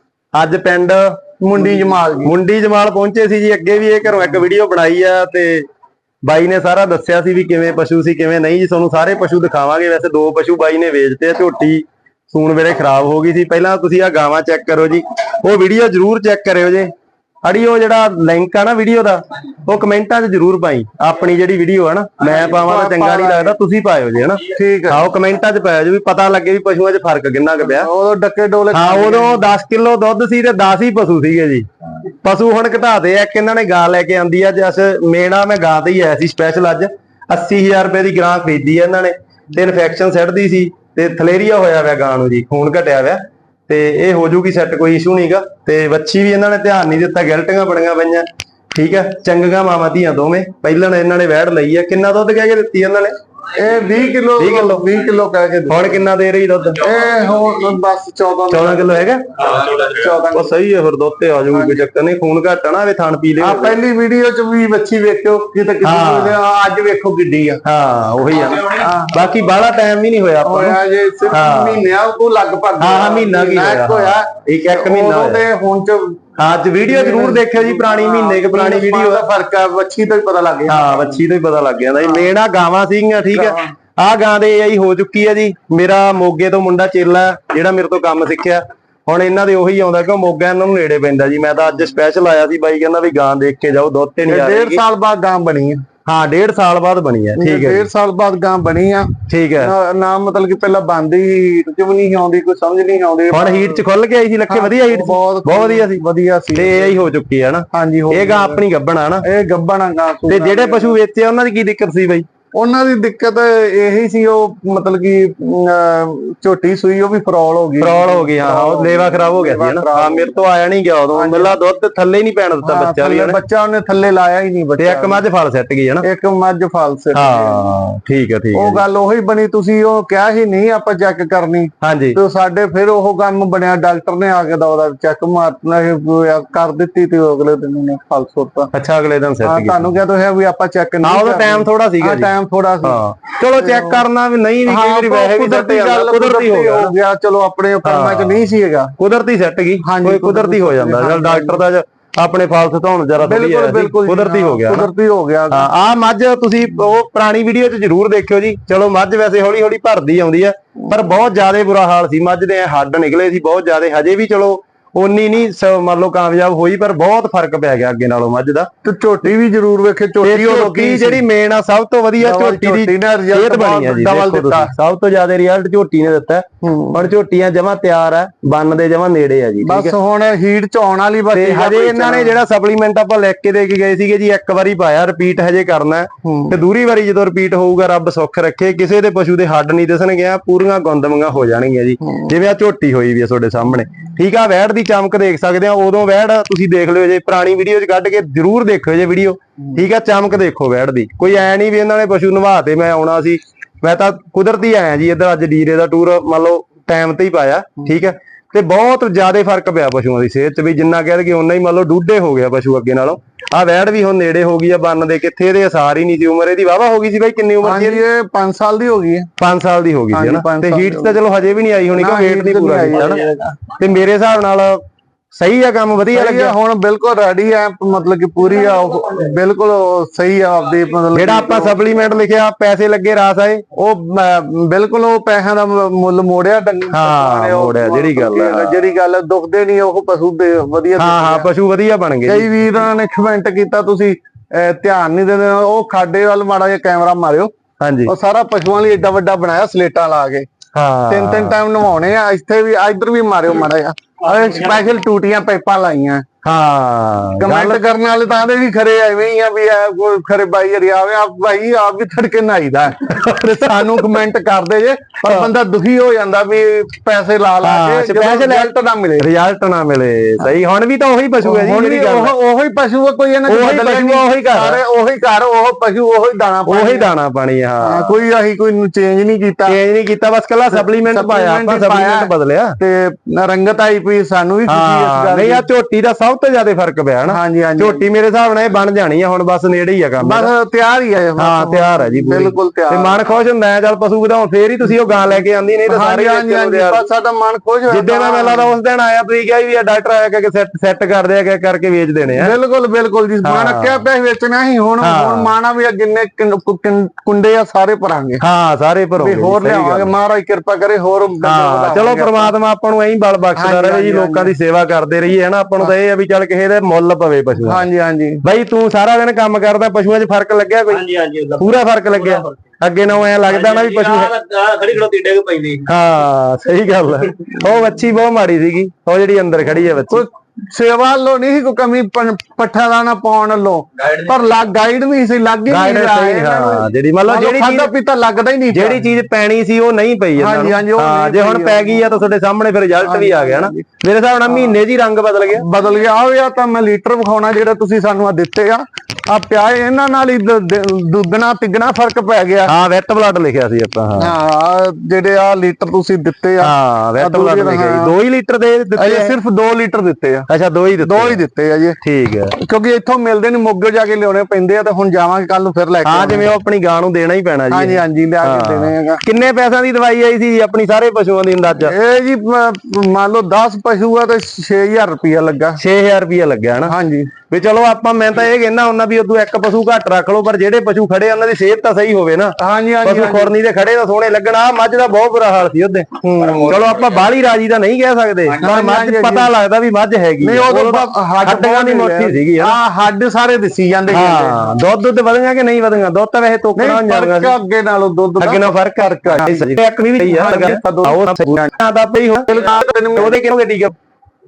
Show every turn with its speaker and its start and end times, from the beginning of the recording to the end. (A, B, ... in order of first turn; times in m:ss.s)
0:00.4-0:01.2 A
0:01.4-0:02.3 B
0:02.2-0:05.7 A
0:06.3-0:16.9 A
0:17.4-0:27.9 A
0:22.2-0:23.6 B
0:24.6-0:25.1 B
0:27.6-0:29.5 B
0:28.7-0:31.7 A
0:32.2-0:53.1 A
0:53.5-0:56.0 B
0:54.4-0:54.9 A
0:55.7-0:56.9 A
0:56.8-1:00.5 B
0:58.5-0:59.8 A
1:00.3-1:03.8 A
1:01.5-1:01.8 B
1:03.4-1:07.6 B
1:05.8-1:06.4 A
1:07.6-1:10.8 A
1:08.7-1:09.2 B
1:10.4-1:16.2 B
1:11.3-1:11.8 A
1:12.8-1:15.4 A
1:16.4-1:19.2 A
1:16.8-1:21.2 B
1:20.7-1:34.8 A
1:23.3-1:23.7 B
1:34.3-1:35.8 B
1:36.1-1:37.9 A
1:37.4-1:43.8 B
1:39.3-1:39.7 A
1:43.3-1:46.0 A
1:44.5-1:47.0 B
1:46.5-1:49.2 A
1:47.7-1:48.6 B
1:49.2-1:51.0 B
1:50.3-1:52.2 A
1:52.6-2:00.3 B
1:57.8-2:03.4 A
2:01.1-2:01.6 B
2:02.6-2:05.2 B
2:04.8-2:06.1 A
2:06.0-2:07.7 B
2:07.1-2:08.8 A
2:08.5-2:18.7 B
2:11.8-2:12.2 A
2:18.7-2:19.9 A
2:19.4-2:23.0 B
2:21.0-2:22.3 A
2:22.8-2:26.9 A
2:23.6-2:24.0 B
2:24.7-2:28.9 B
2:27.8-2:28.4 A
2:29.0-2:34.9 A
2:29.8-2:31.6 B
2:33.2-2:35.6 B
2:35.5-2:48.7 A
2:48.8-2:51.2 B
2:50.2-2:59.9 A
2:52.2-2:54.7 B
2:56.6-2:57.0 B
2:59.6-3:02.4 B
3:01.3-3:38.0 A
3:06.2-3:06.6 B
3:12.0-3:12.3 B
3:37.6-3:39.3 B
3:39.4-3:43.2 A
3:40.1-3:41.2 B
3:41.9-3:43.6 B
3:43.8-3:44.8 A
3:45.3-3:46.5 A
3:46.1-3:51.8 B
3:51.1-3:53.6 A
3:53.7-4:01.5 B
3:56.9-3:58.8 A
4:01.0-4:02.5 A
4:02.3-4:07.5 B
4:07.8-4:08.1 A
4:08.1-4:10.5 B
4:10.8-4:11.6 A
4:11.1-4:16.2 B
4:16.4-4:17.8 A
4:17.4-4:29.3 B
4:23.1-4:24.0 A
4:25.2-4:25.5 A
4:27.6-4:32.3 A
4:31.4-4:37.1 B
4:33.5-4:34.8 A
4:36.7-4:38.1 A
4:37.8-4:39.8 B
4:39.7-4:42.8 A
4:40.7-4:45.7 B
4:44.7-4:50.5 A
4:47.3-4:48.1 B
4:50.2-4:53.2 B
4:51.4-4:57.0 A
4:55.9-4:58.8 B
4:57.9-5:02.5 A
5:02.4-5:08.4 B
5:03.4-5:04.0 A
5:05.0-5:05.5 A
5:08.4-5:10.1 A
5:09.2-5:12.5 B
5:11.4-5:17.8 A
5:13.6-5:14.5 B
5:17.6-5:18.4 B
5:18.4-5:24.4 A
5:20.9-5:22.5 C
5:23.5-5:25.9 C
5:25.8-5:30.2 A
5:30.1-5:39.0 B
5:35.7-5:37.9 A
5:38.7-5:45.6 A
5:40.4-5:42.2 B
5:43.0-5:43.8 B
5:44.5-5:44.8 B
5:45.5-5:52.7 B
5:52.7-5:54.3 A
5:54.2-5:58.1 B
5:56.6-5:59.3 A
5:59.0-6:00.5 B
6:00.5-6:01.4 A
6:01.0-6:02.0 B
6:02.0-6:02.5 A
6:02.6-6:06.5 B
6:06.0-6:12.0 A
6:07.7-6:09.2 B
6:11.8-6:15.8 B
6:15.8-6:16.9 A
6:16.9-6:17.3 B
6:17.5-6:32.8 A
6:22.6-6:23.5 B
6:26.5-6:27.1 C
6:28.6-6:29.5 B
6:30.4-6:34.7 B
6:34.1-6:37.6 A
6:36.8-6:41.7 B
6:38.4-6:44.0 A
6:42.5-6:43.4 B